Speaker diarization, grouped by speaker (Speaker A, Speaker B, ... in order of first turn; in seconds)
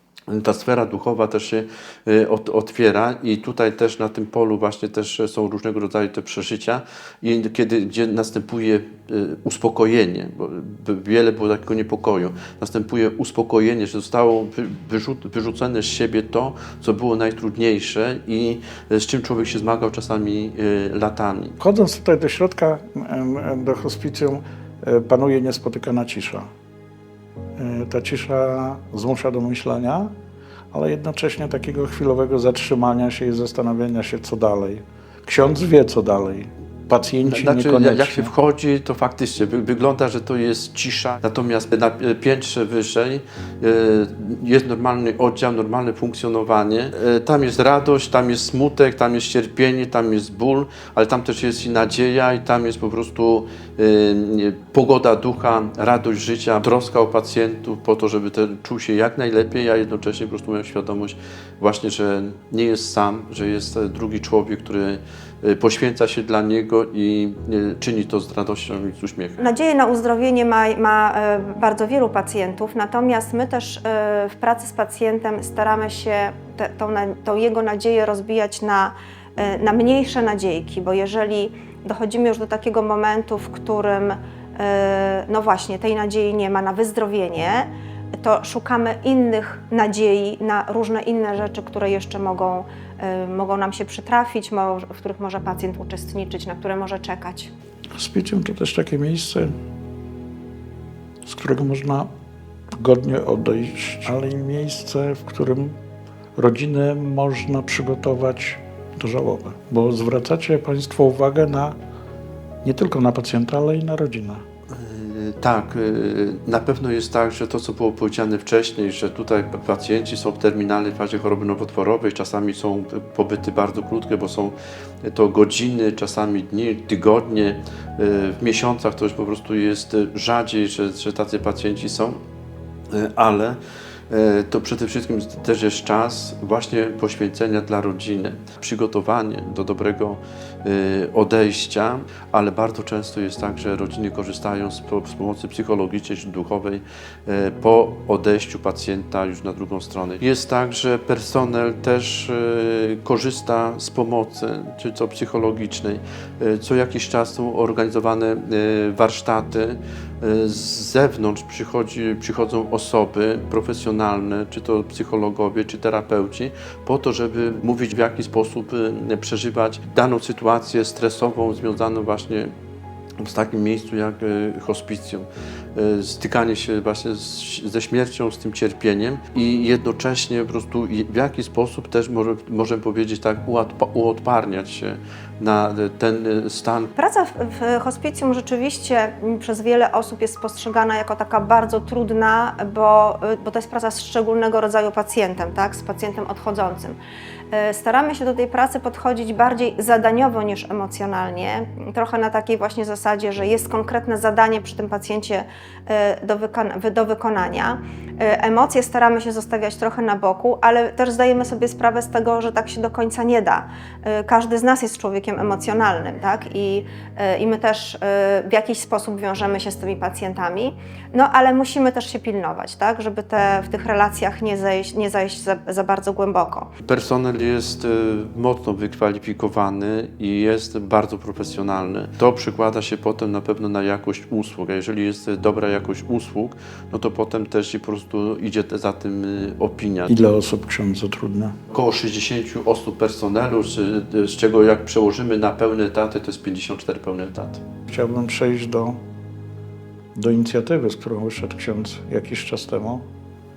Speaker A: 0.3-21.6, 37.2-69.4, 114.7-132.2, 132.9-133.6, 134.1-172.5, 173.2-186.9, 226.8-240.1, 241.7-247.6
Speaker B: 21.6-26.5, 27.6-30.1, 30.7-38.3, 97.9-99.5, 101.2-102.1, 102.8-105.8, 106.3-111.8, 112.6-114.4, 240.1-241.6, 247.9-249.0, 250.1-253.1
Speaker C: 69.4-87.7, 88.2-97.5, 187.0-197.0, 197.5-226.7